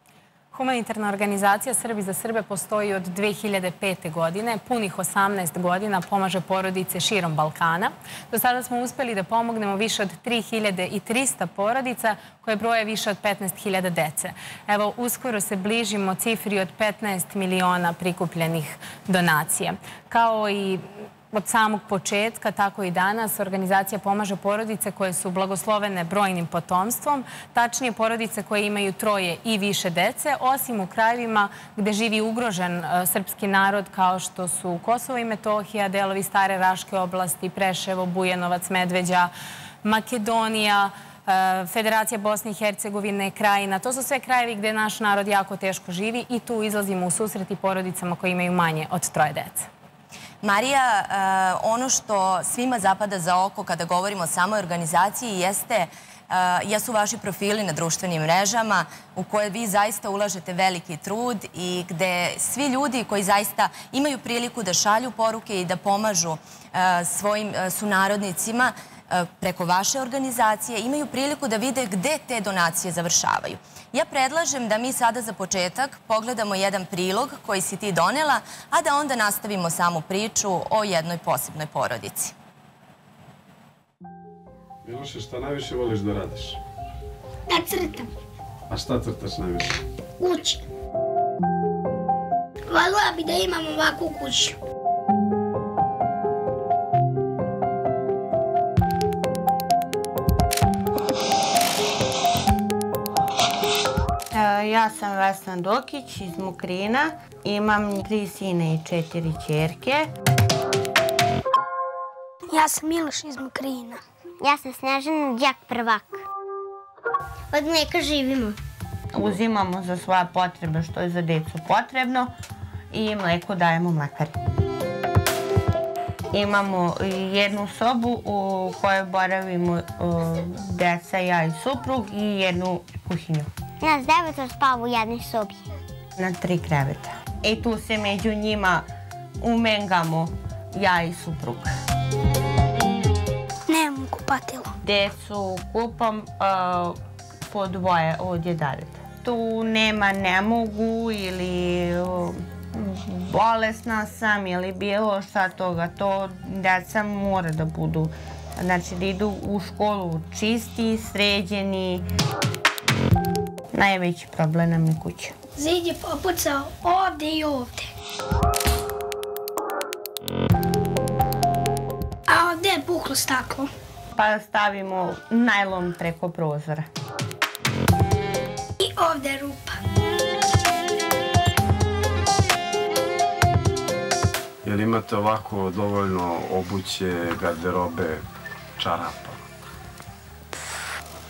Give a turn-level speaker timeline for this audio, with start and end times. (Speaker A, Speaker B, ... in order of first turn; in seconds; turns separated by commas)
Speaker A: 0.5-39.3, Speaker A: 39.8-49.7, Speaker B: 50.4-82.3, Speaker C: 84.8-86.6, Speaker D: 87.5-88.1, Speaker C: 88.7-89.8, Speaker D: 90.2-90.6, Speaker D: 92.7-94.6, Speaker E: 104.3-110.1, Speaker D: 112.5-114.0, Speaker F: 114.4-116.2, Speaker F: 117.5-118.6, Speaker E: 119.1-122.3, Speaker E: 122.9-124.3, Speaker E: 126.3-133.5, Speaker F: 133.8-135.6, Speaker E: 136.2-138.9, Speaker E: 139.4-141.7, Speaker D: 143.7-144.7, Speaker E: 144.8-147.0, Speaker E: 147.5-162.0, Speaker E: 163.7-165.3, Speaker D: 165.6-167.9, Speaker D: 172.3-173.7, Speaker E: 174.2-176.9, Speaker D: 178.8-179.8, Speaker C: 184.6-188.2, Speaker C: 188.8-189.4